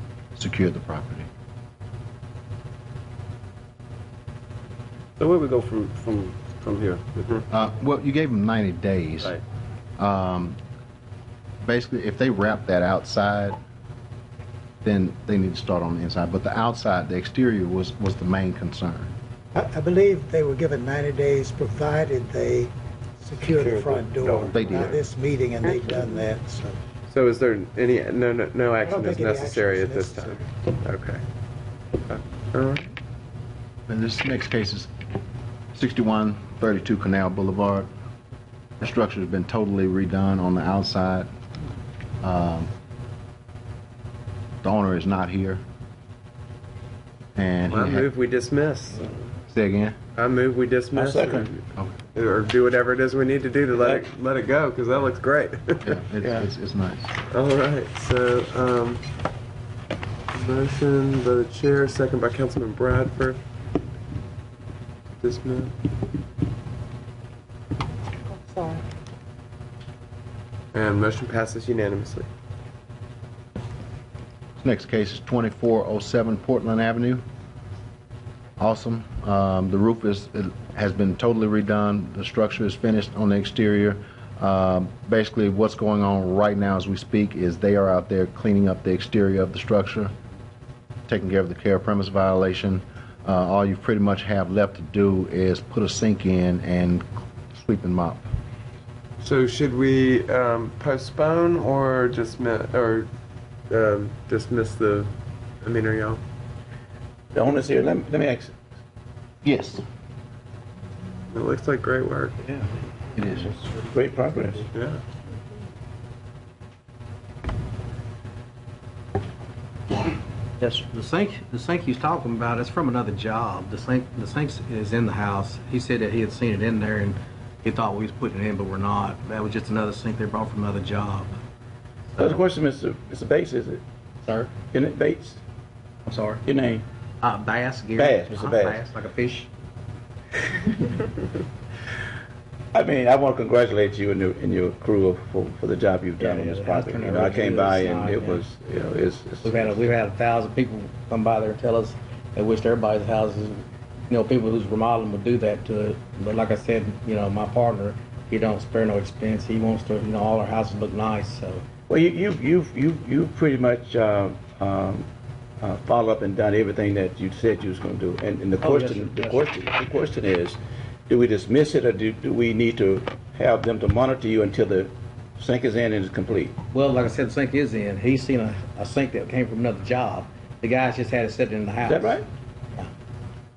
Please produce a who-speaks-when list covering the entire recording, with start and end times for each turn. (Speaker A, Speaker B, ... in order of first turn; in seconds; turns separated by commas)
Speaker A: 0.3-1.3, Speaker B: 5.2-7.1, Speaker A: 7.5-9.3, Speaker A: 10.0-10.6, Speaker A: 11.6-13.6, Speaker A: 14.8-19.1, Speaker C: 19.5-26.8, Speaker D: 23.5-24.6, Speaker A: 24.5-25.0, Speaker E: 24.6-25.0, Speaker E: 27.1-31.2, Speaker C: 28.8-30.4, Speaker E: 32.0-32.9, Speaker A: 33.9-34.9, Speaker A: 35.7-37.9, Speaker A: 38.8-41.3, Speaker A: 42.2-42.7, Speaker A: 44.6-45.6, Speaker A: 47.4-48.1, Speaker E: 47.7-49.2, Speaker A: 49.5-50.0, Speaker E: 50.1-51.6, Speaker D: 50.9-51.5, Speaker E: 52.1-56.5, Speaker D: 53.7-54.0, Speaker A: 55.8-57.1, Speaker E: 57.3-59.1, Speaker E: 60.3-63.4, Speaker E: 65.2-65.7, Speaker C: 68.4-68.8, Speaker E: 70.7-72.3, Speaker A: 74.6-77.2, Speaker A: 78.6-90.1, Speaker A: 91.1-98.3, Speaker E: 99.2-103.1, Speaker E: 103.7-106.2, Speaker D: 107.3-108.5, Speaker A: 109.4-109.8, Speaker E: 111.3-112.4, Speaker A: 113.2-113.6, Speaker D: 113.9-114.7, Speaker E: 114.7-115.0, Speaker F: 120.6-131.3, Speaker F: 132.1-132.4, Speaker D: 132.2-133.8, Speaker F: 134.2-134.5, Speaker D: 134.7-135.4, Speaker F: 136.1-136.4, Speaker D: 136.4-136.8, Speaker F: 137.2-139.5, Speaker D: 138.0-138.8, Speaker D: 142.7-149.8, Speaker F: 146.2-148.4, Speaker F: 149.4-161.6, Speaker D: 161.9-165.1, Speaker D: 165.6-176.6, Speaker F: 168.6-169.4, Speaker F: 176.7-182.2, Speaker D: 181.8-182.2